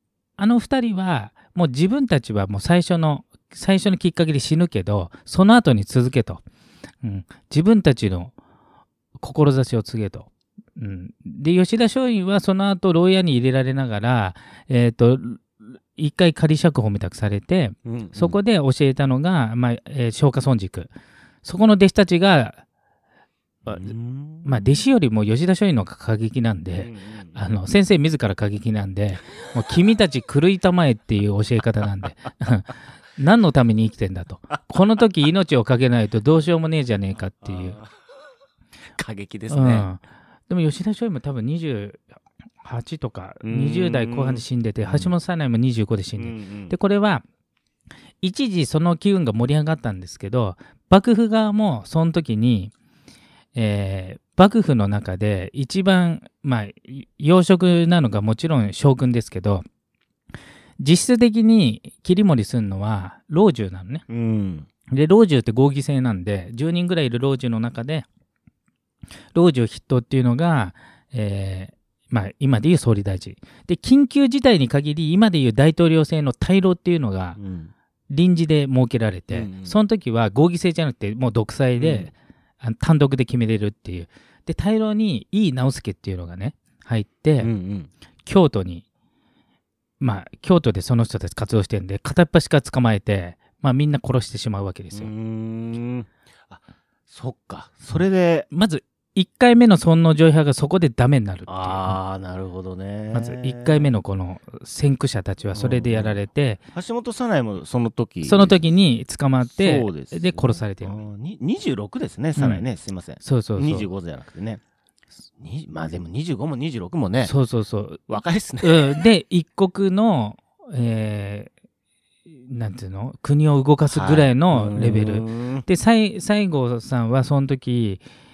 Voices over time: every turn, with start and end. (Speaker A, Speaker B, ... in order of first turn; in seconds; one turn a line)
Speaker A: 0.4-6.4
Speaker A: 7.0-8.3
Speaker A: 9.2-20.9
Speaker B: 17.9-18.4
Speaker A: 21.4-22.6
Speaker B: 23.7-24.7
Speaker A: 23.7-23.9
Speaker A: 24.4-37.8
Speaker B: 26.8-27.5
Speaker B: 37.4-37.9
Speaker B: 39.0-39.9
Speaker A: 39.5-42.1
Speaker A: 42.6-47.2
Speaker B: 43.4-45.1
Speaker B: 46.2-46.8
Speaker A: 48.2-52.7
Speaker A: 53.5-59.6
Speaker A: 60.8-64.0
Speaker B: 64.1-64.7
Speaker A: 64.9-68.1
Speaker A: 69.3-77.4
Speaker B: 77.4-77.7
Speaker A: 78.1-87.5
Speaker B: 79.3-79.8
Speaker B: 81.8-82.1
Speaker B: 87.4-87.9
Speaker A: 88.2-88.8
Speaker A: 90.0-95.1
Speaker B: 94.9-98.5
Speaker A: 98.5-102.0
Speaker B: 101.5-104.0
Speaker A: 103.1-106.6
Speaker B: 105.5-106.2
Speaker B: 106.7-108.7
Speaker A: 108.2-111.0
Speaker B: 109.5-114.6
Speaker A: 112.4-112.7
Speaker A: 113.2-113.9
Speaker B: 115.4-117.3
Speaker A: 117.2-121.5
Speaker B: 118.1-119.0
Speaker A: 122.3-128.0
Speaker B: 123.9-125.7